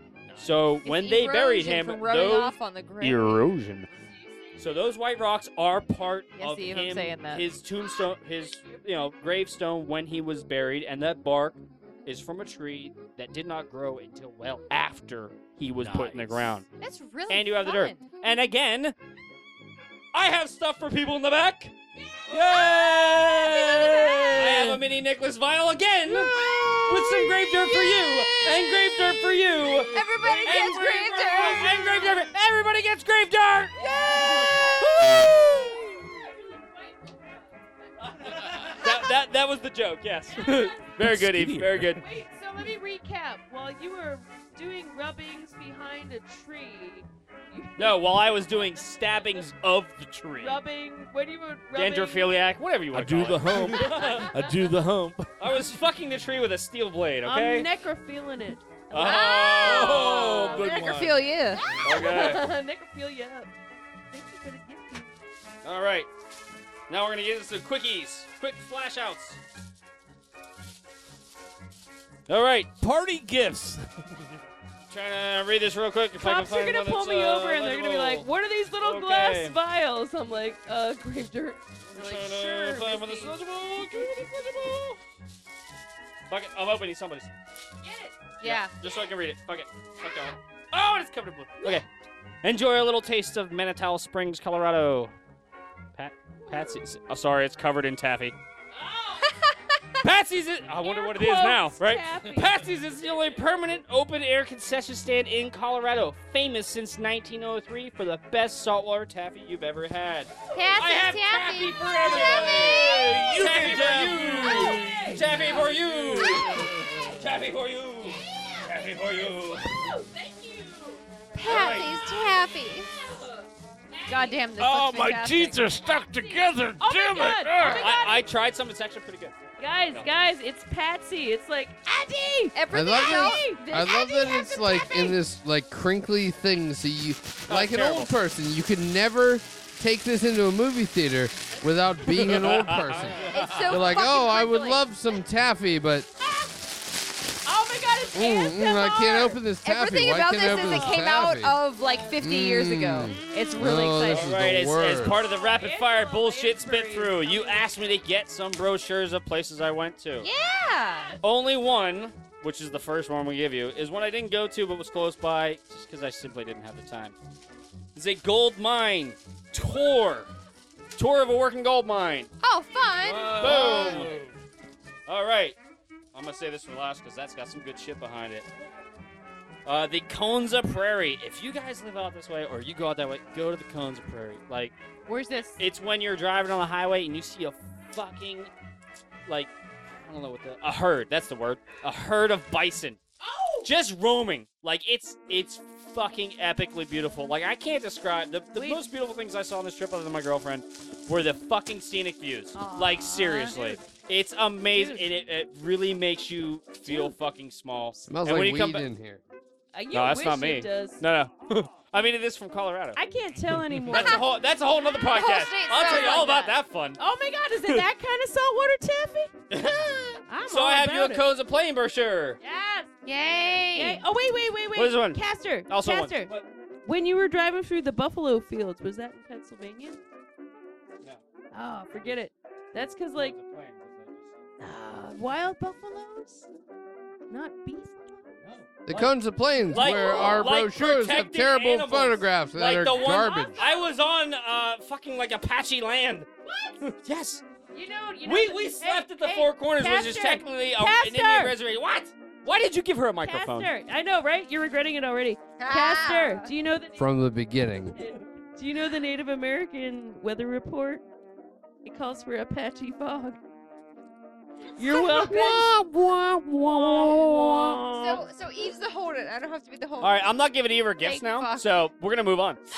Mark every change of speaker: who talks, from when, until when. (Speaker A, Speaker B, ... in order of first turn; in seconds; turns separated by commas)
Speaker A: 0.3-3.9, Speaker B: 0.8-3.4, Speaker C: 3.9-4.6, Speaker A: 4.6-16.7, Speaker B: 6.3-7.5, Speaker D: 15.8-16.5, Speaker B: 16.8-18.1, Speaker A: 17.3-18.9, Speaker A: 20.1-21.8, Speaker A: 22.3-33.8, Speaker C: 22.4-23.2, Speaker B: 23.2-24.4, Speaker D: 24.4-24.8, Speaker B: 26.1-28.9, Speaker B: 29.9-32.2, Speaker C: 33.8-34.7, Speaker B: 33.8-34.9, Speaker A: 34.5-36.1, Speaker C: 36.3-39.0, Speaker A: 38.0-42.0, Speaker C: 40.4-40.9, Speaker D: 41.0-42.0, Speaker C: 42.0-49.4, Speaker A: 47.8-50.6, Speaker C: 50.4-52.4, Speaker A: 51.8-54.4, Speaker D: 52.9-55.6, Speaker C: 53.6-54.5, Speaker A: 55.4-57.7, Speaker C: 57.2-60.8, Speaker A: 58.9-60.8, Speaker B: 59.0-61.7, Speaker D: 59.6-61.4, Speaker C: 61.6-63.5, Speaker A: 61.8-62.5, Speaker C: 64.1-65.1, Speaker A: 65.6-66.1, Speaker A: 66.9-69.4, Speaker A: 72.3-72.7, Speaker D: 72.8-74.1, Speaker A: 74.9-79.6, Speaker C: 76.2-84.2, Speaker A: 81.9-85.0, Speaker A: 86.3-87.3, Speaker C: 87.8-89.1, Speaker B: 88.4-88.7, Speaker A: 88.4-91.9, Speaker A: 92.4-95.1, Speaker A: 96.0-98.4, Speaker C: 96.5-96.8, Speaker C: 98.8-99.3, Speaker A: 100.0-119.8, Speaker C: 100.8-102.7, Speaker B: 110.5-112.8, Speaker D: 112.0-117.0, Speaker C: 112.1-113.6, Speaker C: 114.4-116.5, Speaker C: 119.8-121.0, Speaker B: 121.3-122.9, Speaker A: 121.5-122.0, Speaker C: 124.0-124.3, Speaker B: 124.1-125.6, Speaker D: 124.6-128.0, Speaker C: 125.9-128.2, Speaker A: 127.6-130.1, Speaker C: 129.6-133.6, Speaker B: 132.5-135.0, Speaker E: 132.7-146.1, Speaker A: 137.5-138.2, Speaker A: 142.0-143.8, Speaker B: 143.3-144.8, Speaker C: 147.4-149.2, Speaker E: 148.1-151.6, Speaker B: 148.8-154.3, Speaker C: 150.4-151.1, Speaker C: 151.8-152.2, Speaker E: 152.2-155.2, Speaker A: 154.1-160.3, Speaker C: 155.0-157.9, Speaker B: 160.2-161.2, Speaker A: 161.2-167.2, Speaker A: 167.9-170.3, Speaker A: 171.0-172.3, Speaker B: 172.4-174.0, Speaker D: 173.1-174.2, Speaker A: 173.1-174.2, Speaker A: 175.1-175.6, Speaker A: 176.1-178.5, Speaker A: 179.7-184.8, Speaker B: 185.1-185.6, Speaker A: 185.6-188.5, Speaker A: 189.3-193.0, Speaker C: 193.2-193.7, Speaker A: 193.6-208.9, Speaker C: 198.6-198.8, Speaker C: 202.6-203.8, Speaker C: 204.7-205.1, Speaker C: 206.9-207.2, Speaker E: 208.1-209.2, Speaker C: 209.7-211.1, Speaker A: 209.9-213.0, Speaker C: 212.9-214.3, Speaker A: 213.8-217.0, Speaker B: 215.1-216.6, Speaker C: 217.0-219.4, Speaker A: 219.5-222.4, Speaker C: 220.3-221.3, Speaker C: 222.4-222.9, Speaker B: 223.1-224.0, Speaker C: 223.7-226.3, Speaker A: 224.8-226.5, Speaker C: 226.8-230.0, Speaker C: 231.5-233.4, Speaker A: 231.9-232.2, Speaker A: 232.7-234.5, Speaker C: 234.6-236.5, Speaker C: 237.3-238.4, Speaker A: 238.4-239.2, Speaker E: 238.9-243.6, Speaker A: 239.7-246.3, Speaker C: 239.7-240.4, Speaker C: 243.1-243.9, Speaker A: 246.8-247.4, Speaker C: 247.7-251.6, Speaker A: 248.2-253.7, Speaker C: 253.2-257.3, Speaker B: 255.6-256.5, Speaker E: 257.0-258.0, Speaker C: 257.9-261.0, Speaker C: 261.9-263.4, Speaker C: 264.8-265.8, Speaker A: 264.9-268.2, Speaker B: 267.2-270.3, Speaker A: 270.0-272.6, Speaker B: 271.0-271.7